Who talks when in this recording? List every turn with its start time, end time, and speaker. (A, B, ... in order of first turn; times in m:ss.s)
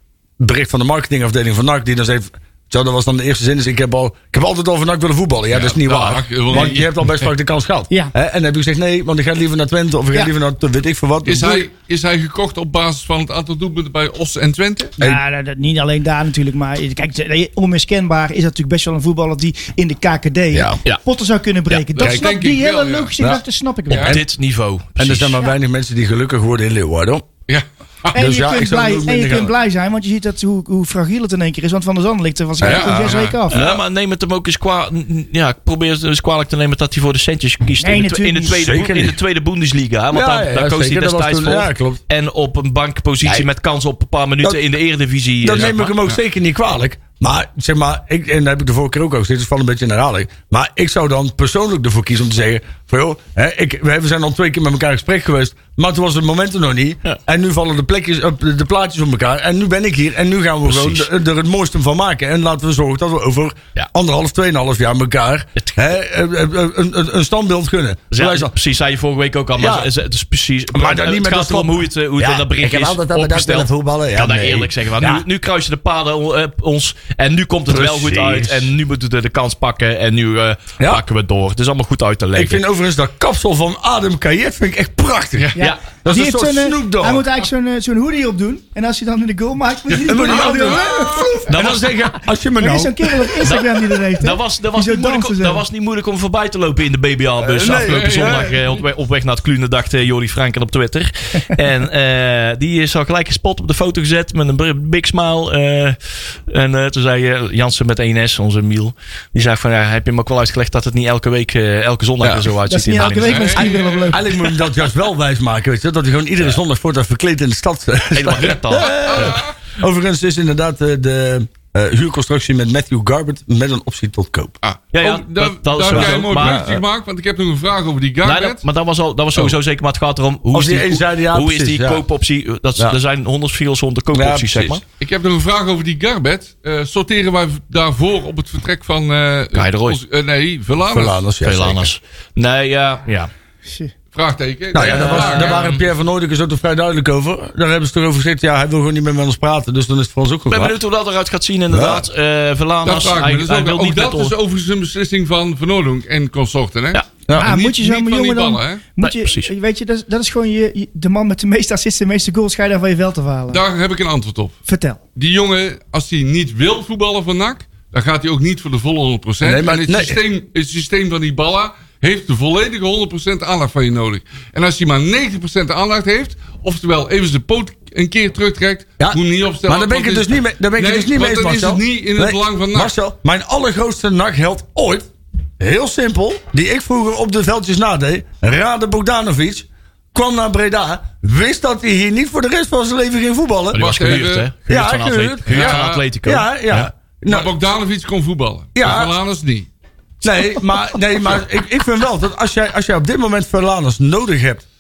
0:00.4-0:11.7 A
0:05.5-0:07.3 B
0:11.2-0:15.0 B
0:15.0-0:24.2 C
0:20.5-0:20.8 A
0:22.0-0:23.2 B
0:23.9-0:24.2 B
0:24.0-0:24.3 A
0:24.0-0:25.5 D
0:25.0-0:27.3 A
0:27.5-0:28.2 B
0:28.1-0:29.6 A
0:28.1-0:33.6 C
0:32.6-0:33.4 B
0:32.6-0:33.8 A
0:33.5-0:46.0 D
0:37.8-0:38.7 C
0:38.5-0:39.2 A
0:40.1-0:42.0 A
0:45.4-1:08.5 A
0:45.6-0:46.2 B
1:00.6-1:01.1 D
1:08.1-1:22.6 D
1:09.6-1:09.9 A
1:10.7-1:15.2 A
1:17.7-1:18.7 A
1:22.4-1:27.3 A
1:25.6-1:31.5 C
1:29.9-1:31.4 B
1:30.1-1:33.4 A
1:31.5-1:31.9 D
1:32.6-1:35.6 C
1:33.4-1:53.7 D
1:37.4-1:38.5 A
1:37.6-1:38.8 B
1:52.2-1:52.5 A
1:52.7-1:54.4 C
1:53.0-1:54.2 B
1:53.6-2:04.6 A
1:58.1-1:59.4 D
1:58.8-1:59.6 B
2:04.6-2:08.6 B
2:04.9-2:06.6 D
2:05.9-2:06.8 A
2:08.2-2:14.8 D
2:10.5-2:12.0 A
2:14.1-2:14.8 A
2:15.0-2:21.2 B
2:19.5-2:20.0 D
2:20.9-2:21.9 A
2:21.4-2:23.3 D
2:23.6-2:23.9 C
2:24.1-2:25.8 B
2:24.7-2:30.8 A
2:24.8-2:25.8 D
2:30.5-2:34.3 D
2:31.7-2:32.0 A
2:32.8-2:38.8 B
2:37.3-2:37.5 A
2:37.4-2:43.6 C
2:39.0-2:39.5 D
2:43.5-2:44.6 B
2:44.7-2:45.0 C
2:45.2-3:02.9 B
2:49.4-2:50.2 A
2:59.0-3:05.1 A
3:05.6-3:17.5 A
3:13.7-3:16.9 D
3:13.8-3:14.5 B
3:15.5-3:16.0 B
3:17.3-3:19.7 B
3:18.8-3:19.1 A
3:20.2-3:24.6 A